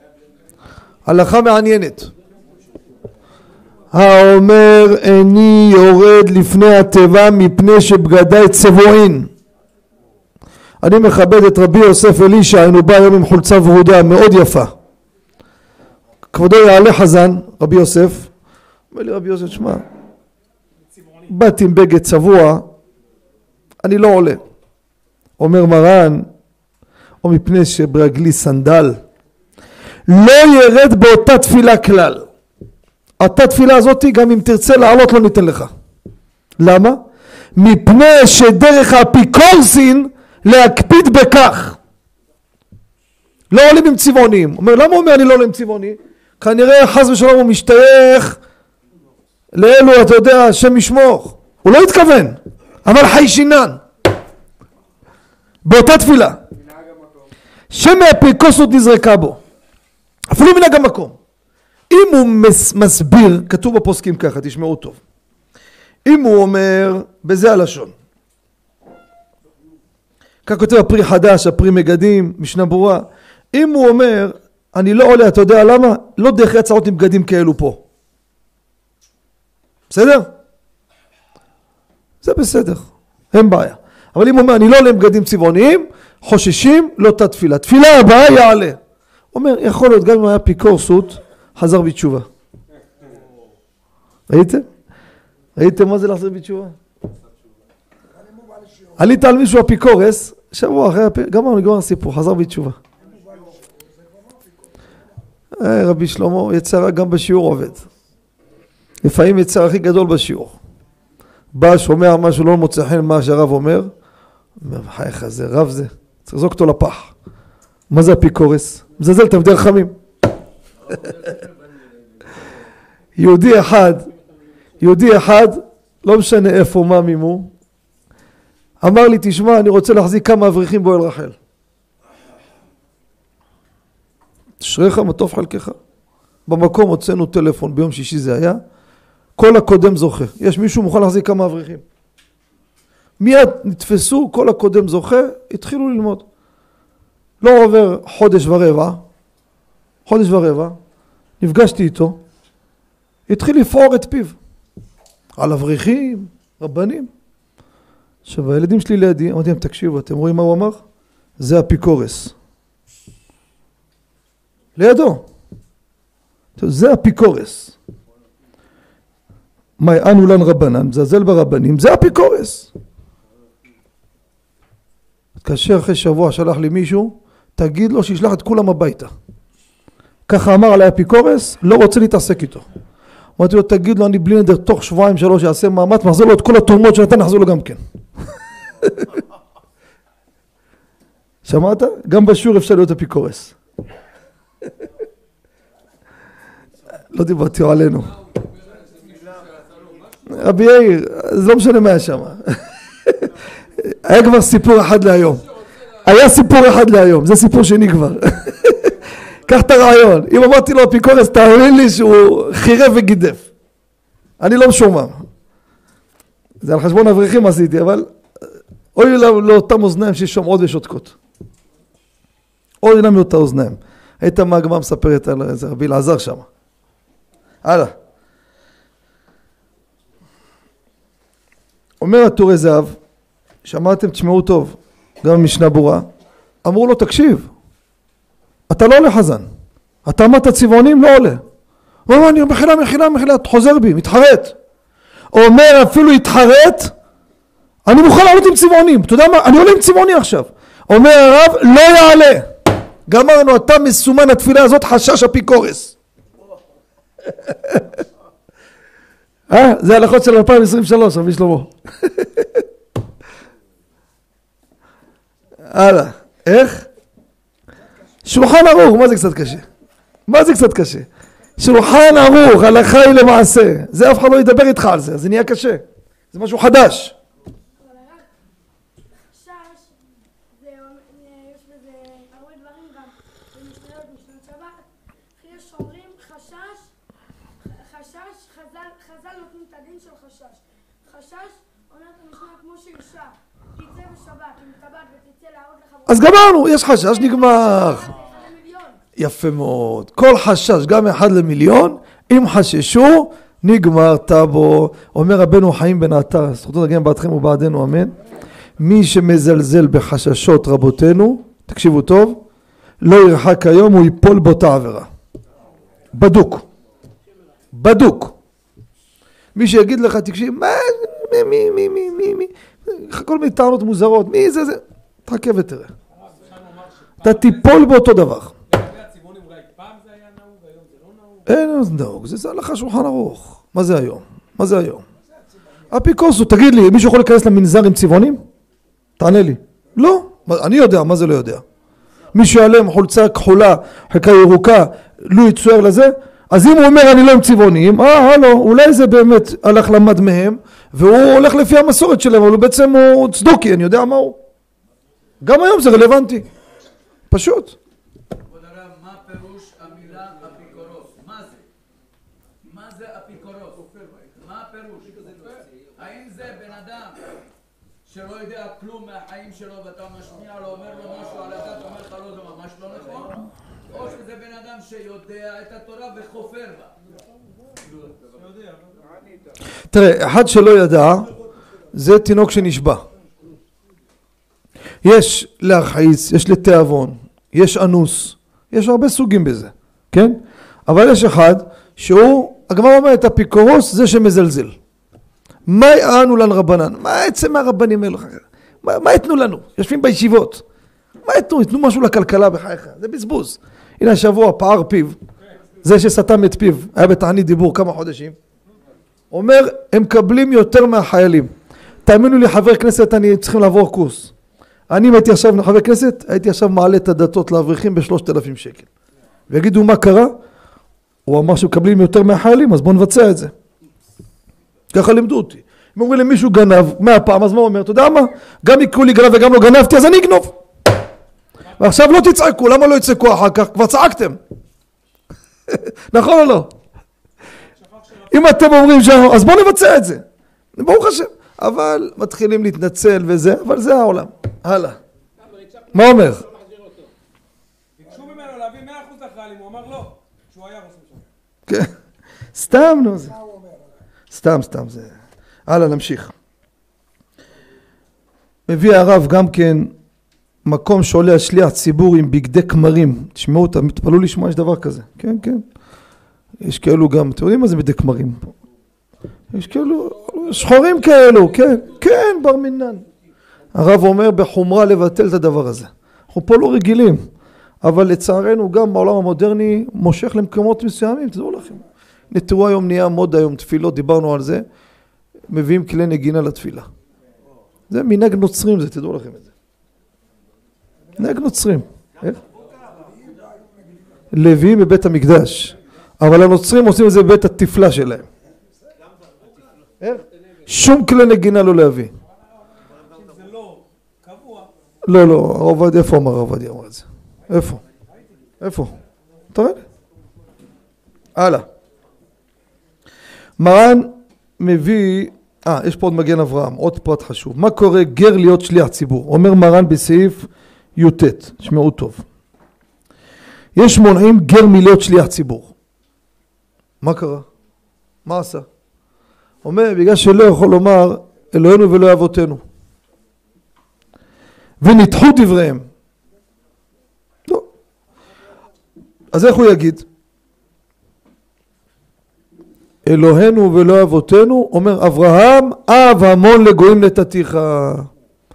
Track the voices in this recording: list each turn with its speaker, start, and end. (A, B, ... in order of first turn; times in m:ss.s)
0:01.0-0:02.1 A
0:03.9-0:09.3 A
0:10.8-0:14.7 A
0:16.3-0:18.3 A
0:18.9-0:19.8 A
0:20.8-0:21.3 B
0:21.3-0:22.7 A
0:23.8-0:24.4 A
0:25.4-0:26.3 A
0:27.2-0:29.0 A
0:30.1-0:32.3 A
0:33.2-0:35.7 A
0:36.6-0:41.8 A
0:43.5-0:48.4 A
0:49.5-0:53.8 A
0:55.6-0:56.4 A
0:57.7-0:59.4 A
1:00.3-1:01.2 A
1:01.9-1:05.0 A
1:06.0-1:07.9 A
1:10.4-1:17.8 A
1:19.9-1:20.3 A
1:22.2-1:28.8 A
1:29.3-1:32.3 A
1:34.3-1:34.7 A
1:35.6-1:36.8 A
1:39.0-1:42.8 A
1:45.6-1:47.8 A
1:49.0-1:50.6 A
1:51.5-1:53.9 A
1:54.6-1:57.1 A
1:57.9-2:00.0 A
2:00.8-2:02.4 C
2:03.2-2:04.1 A
2:04.8-2:07.5 A
2:08.8-2:11.4 A
2:14.6-2:15.8 A
2:16.5-2:18.6 A
2:19.4-2:21.8 A
2:23.2-2:26.2 A
2:27.4-2:29.0 A
2:30.0-2:30.8 A
2:31.4-2:32.2 A
2:33.3-2:34.4 A
2:35.4-2:37.1 A
2:38.2-2:40.8 A
2:41.4-2:42.3 A
2:44.8-2:45.2 A
2:46.6-2:47.7 A
2:49.8-2:52.7 A
2:55.4-2:59.1 A
3:00.3-3:02.6 A
3:03.4-3:07.8 A
3:08.8-3:09.1 A
3:11.4-3:13.5 A
3:17.1-3:18.1 A
3:18.2-3:20.2 C
3:20.3-3:25.4 A
3:26.0-3:33.5 A
3:34.4-3:35.2 A
3:36.6-3:38.1 A
3:38.9-3:41.2 A
3:42.8-3:46.5 A
3:47.6-3:48.0 A
3:52.0-3:53.0 A
3:53.6-3:56.1 A
3:56.6-3:57.5 A
3:58.7-3:59.4 A
4:00.0-4:01.4 A
4:02.1-4:04.6 A
4:05.3-4:06.9 A
4:07.8-4:12.5 A
4:13.1-4:15.9 A
4:19.5-4:22.6 A
4:25.7-4:26.9 A
4:28.2-4:29.6 A
4:30.3-4:31.1 A
4:31.6-4:37.1 A
4:37.8-4:38.3 D
4:39.3-4:39.9 D
4:40.5-4:46.9 D
4:47.6-4:59.0 D
4:56.1-4:58.1 A
4:59.2-5:08.1 A
5:08.8-5:12.4 A
5:13.0-5:15.1 A
5:16.1-5:16.6 A
5:17.7-5:18.3 A
5:19.5-5:25.9 A
5:26.1-5:27.9 B
5:27.2-5:28.5 A
5:28.7-5:31.6 B
5:31.4-5:35.0 A
5:35.9-5:38.4 A
5:39.2-5:41.6 A
5:42.3-5:54.4 A
5:55.4-5:56.4 A
5:57.3-5:57.8 A
5:58.4-6:01.7 C
6:02.6-6:07.3 C
6:08.0-6:16.9 C
6:17.8-6:18.4 C
6:18.4-6:19.0 B
6:19.9-6:21.3 A
6:21.9-6:23.0 A
6:25.0-6:34.8 A
6:35.7-6:40.6 A
6:41.2-6:45.2 A
6:45.8-6:48.3 A
6:49.3-6:51.5 A
6:52.0-6:54.3 A
6:54.9-6:58.9 A
6:59.5-7:00.4 A
7:01.2-7:03.5 A
7:04.9-7:10.5 A
7:11.8-7:14.4 A
7:15.7-7:16.7 A
7:17.7-7:18.5 B
7:18.3-7:20.2 A
7:20.8-7:25.0 A
7:25.9-7:26.4 A
7:28.0-7:31.3 B
7:32.5-7:33.4 A
7:34.3-7:35.1 A
7:35.7-7:36.3 A
7:38.7-7:39.9 A
7:40.6-7:45.6 A
7:46.6-7:48.5 A
7:49.5-7:53.0 A
7:53.7-7:57.3 A
7:57.8-8:04.6 A
8:05.5-8:06.9 A
8:07.9-8:09.5 A
8:11.2-8:12.4 A
8:14.3-8:18.3 A
8:20.0-8:22.1 A
8:22.7-8:24.7 B
8:25.0-8:27.8 A
8:27.7-8:28.5 B
8:28.6-8:28.9 A
8:29.5-8:29.8 A
8:31.4-8:31.7 A
8:33.6-8:42.2 A
8:43.8-8:45.7 A
8:47.0-8:47.4 A
8:48.2-8:48.6 A
8:49.6-8:52.6 A
8:54.8-8:55.9 A
8:59.3-9:00.0 A
9:03.0-9:08.1 A